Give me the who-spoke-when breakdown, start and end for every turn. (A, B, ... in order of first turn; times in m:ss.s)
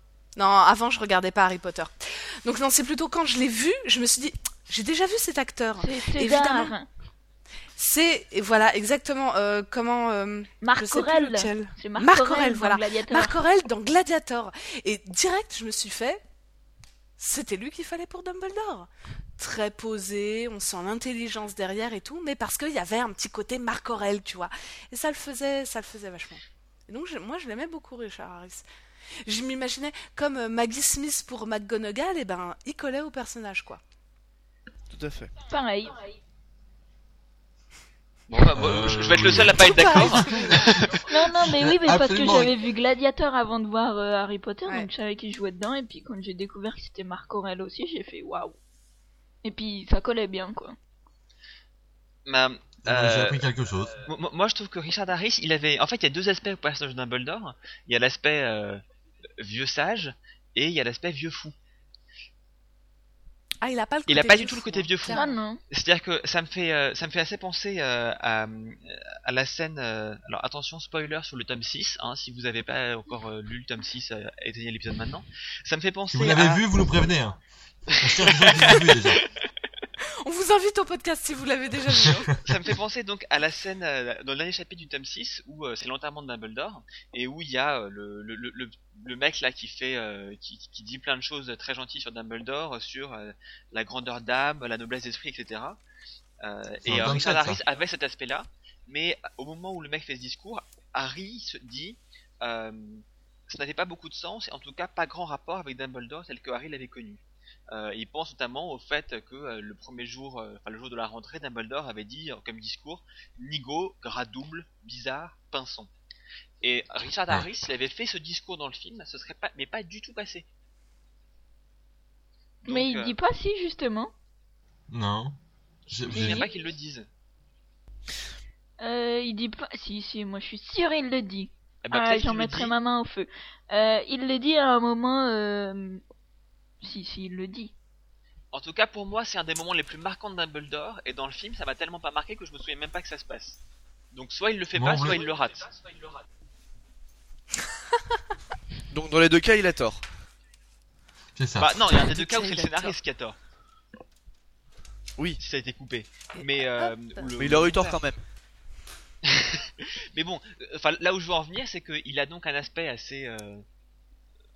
0:00.4-0:06.8 A
0:05.8-0:06.9 B
0:07.8-0:16.2 A
0:10.6-0:13.4 B
0:17.2-0:28.6 A
0:29.2-0:33.8 A
0:34.9-0:35.3 C
0:35.5-0:36.0 B
0:38.3-0:41.0 D
0:38.5-0:42.5 E
0:39.6-0:40.5 A
0:41.1-0:48.6 B
0:49.4-0:50.8 B
0:52.3-0:53.5 D
0:52.8-0:54.0 E
0:54.0-0:58.8 D
0:59.4-1:01.6 D
1:03.6-1:05.3 A
1:04.1-1:16.7 D
1:05.1-1:05.6 B
1:16.1-1:17.4 E
1:17.9-1:19.2 E
1:17.9-1:19.3 D
1:20.2-1:22.3 A
1:22.4-1:35.8 D
1:36.4-1:55.9 D
1:36.8-1:37.6 E
1:56.6-2:00.5 D
2:02.7-2:03.2 D
2:02.7-2:04.1 B
2:04.9-2:05.4 E
2:05.9-2:06.5 E
2:05.9-2:07.1 D
2:06.1-2:06.5 B
2:08.8-2:16.0 B
2:11.8-2:12.7 D
2:16.8-2:17.7 B
2:18.5-2:23.6 D
2:24.1-2:25.8 D
2:24.8-2:25.2 E
2:28.9-2:30.0 C
2:31.4-2:31.8 E
2:31.6-2:33.4 D
2:31.9-2:33.0 A
2:35.4-2:38.0 D
2:36.4-2:37.3 A
2:37.4-2:38.2 C
2:39.2-2:43.6 D